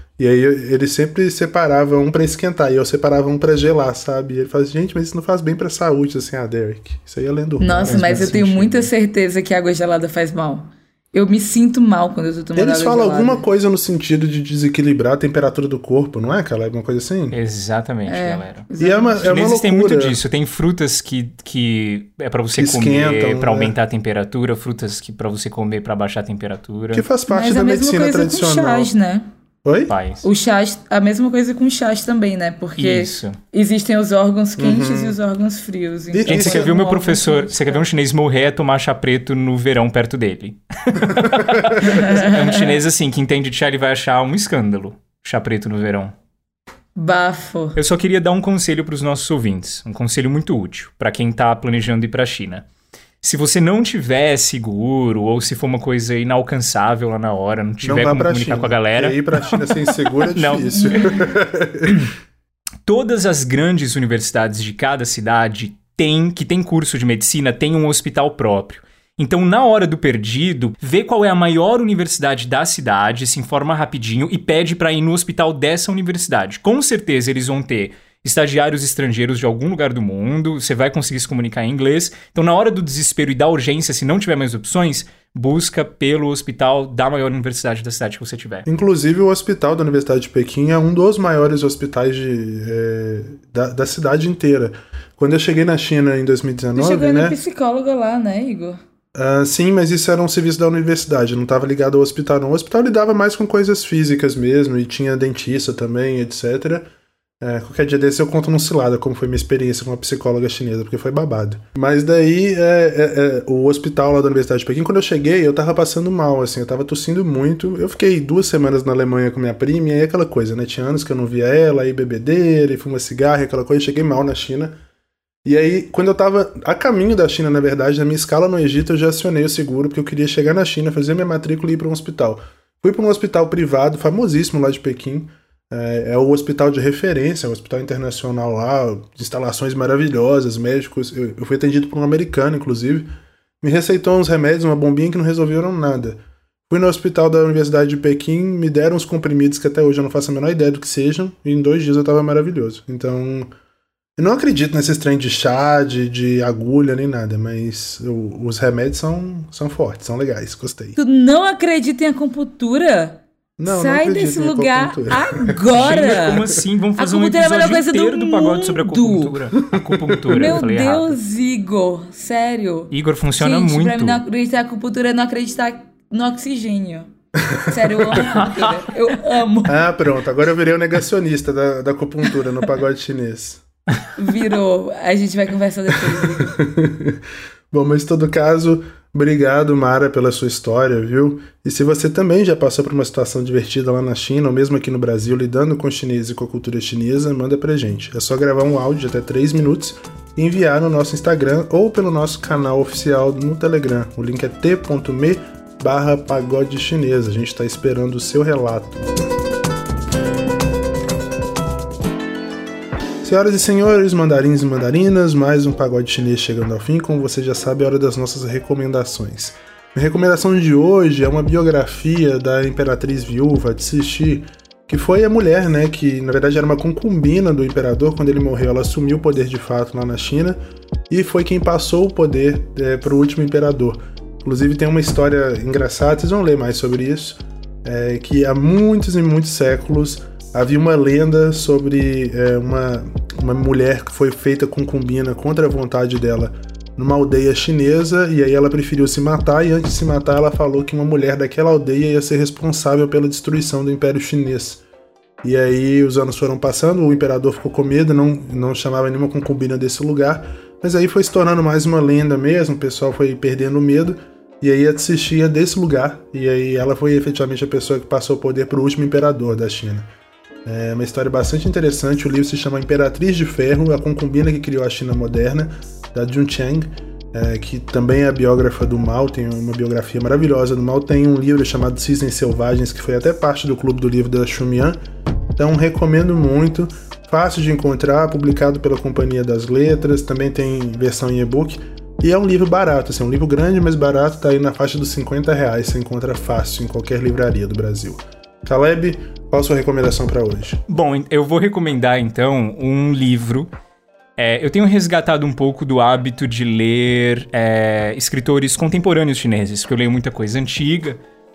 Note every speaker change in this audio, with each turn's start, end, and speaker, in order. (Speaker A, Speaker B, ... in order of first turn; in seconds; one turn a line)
Speaker A: 0.2-8.4
Speaker B: 7.6-13.4
Speaker C: 7.8-8.9
Speaker A: 12.6-17.4
Speaker C: 17.3-18.7
Speaker B: 18.1-19.4
Speaker A: 18.8-20.2
Speaker C: 19.2-27.1
Speaker A: 22.5-23.8
Speaker A: 26.9-28.9
Speaker B: 27.3-29.3
Speaker A: 29.6-29.9
Speaker C: 29.9-30.2
Speaker B: 30.2-37.8
Speaker C: 32.8-33.4
Speaker A: 34.6-35.2
Speaker A: 36.1-36.7
Speaker C: 36.3-46.1
Speaker A: 41.0-41.9
Speaker B: 41.8-42.8
Speaker B: 47.0-47.8
Speaker C: 47.8-52.6
Speaker C: 53.2-61.1
Speaker A: 57.8-62.0
Speaker B: 60.8-61.1
Speaker C: 61.9-62.1
Speaker C: 62.8-88.7
Speaker A: 88.7-97.4
Speaker B: 96.7-98.8
Speaker A: 99.2-106.9
Speaker A: 107.4-124.8
Speaker A: 125.4-143.1
Speaker A: 143.6-153.5
Speaker A: 154.2-161.0
Speaker B: 161.0-166.4
Speaker A: 163.6-165.6
Speaker C: 165.7-171.2
Speaker B: 167.0-169.4
Speaker A: 169.6-170.6
Speaker B: 170.3-177.1
Speaker C: 172.9-174.2
Speaker A: 177.5-177.9
Speaker B: 177.6-179.8
Speaker C: 178.1-178.6
Speaker A: 179.7-183.6
Speaker B: 184.2-186.5
Speaker A: 186.1-209.2
Speaker A: 213.2-230.6
Speaker A: 231.1-254.8
Speaker A: 255.4-270.1
Speaker A: 270.6-285.0
Speaker A: 285.6-300.8
Speaker C: 300.9-303.7
Speaker C: 304.4-311.2